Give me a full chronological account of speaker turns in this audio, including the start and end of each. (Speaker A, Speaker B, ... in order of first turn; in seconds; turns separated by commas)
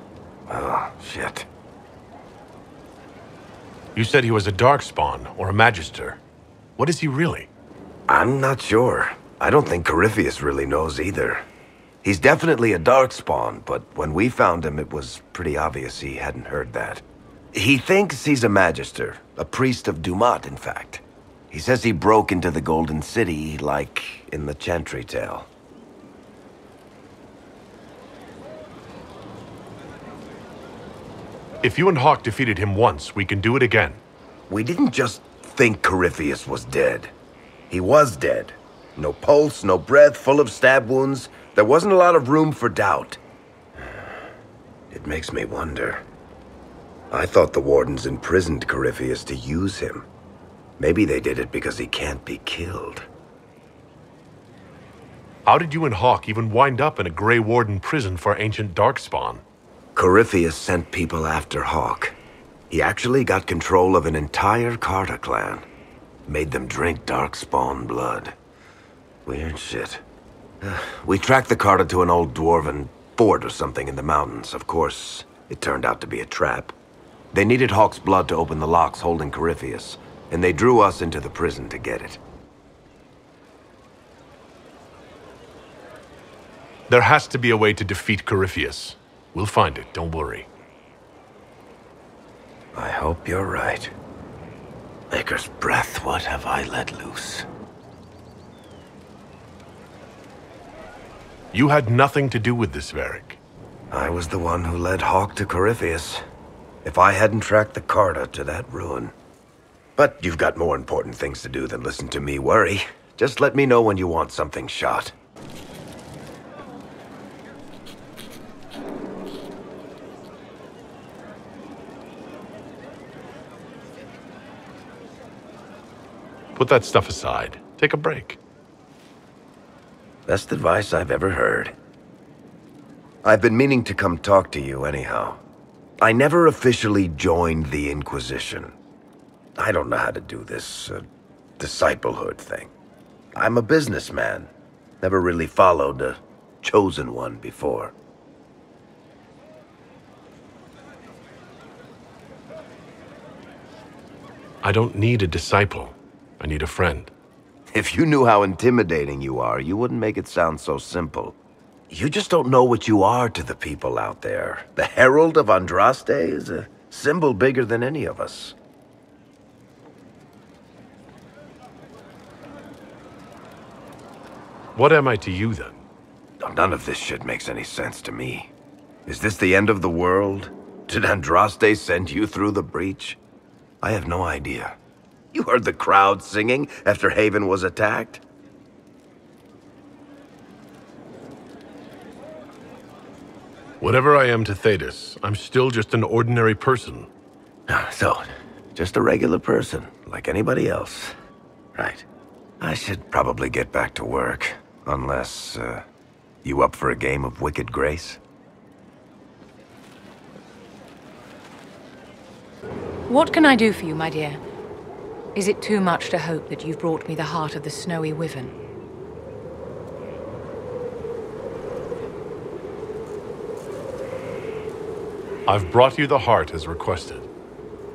Speaker A: 0.5-1.5, Speaker B: 3.9-6.2, Speaker B: 6.8-7.5, Speaker A: 8.1-11.4, Speaker A: 12.0-25.5, Speaker B: 31.6-34.0, Speaker A: 34.5-37.1, Speaker A: 37.7-43.2, Speaker A: 44.9-46.0, Speaker A: 47.1-50.1, Speaker A: 50.8-53.0, Speaker B: 55.5-59.4, Speaker A: 60.0-62.1, Speaker A: 62.7-65.6, Speaker A: 66.3-68.3, Speaker A: 69.2-70.0, Speaker A: 70.6-76.7, Speaker A: 77.3-82.2, Speaker B: 86.9-90.5, Speaker A: 92.7-93.9, Speaker A: 95.1-97.5, Speaker B: 101.5-103.4, Speaker A: 103.9-106.2, Speaker A: 106.8-109.1, Speaker A: 110.0-115.1, Speaker B: 126.5-128.4, Speaker A: 130.3-131.7, Speaker A: 133.2-135.4, Speaker A: 136.0-138.7, Speaker A: 139.6-141.0, Speaker A: 141.6-142.7, Speaker A: 143.4-144.5, Speaker A: 145.0-147.9, Speaker B: 154.6-157.1, Speaker A: 157.7-161.3, Speaker A: 161.9-168.6, Speaker B: 174.7-175.8, Speaker A: 176.4-178.5, Speaker A: 179.1-183.2, Speaker A: 183.8-184.8, Speaker A: 185.3-188.2, Speaker B: 193.8-197.1, Speaker A: 197.7-201.1, Speaker A: 201.8-202.1, Speaker A: 202.6-205.8, Speaker A: 206.4-208.2, Speaker C: 213.1-214.4, Speaker C: 215.3-218.6, Speaker B: 225.5-227.3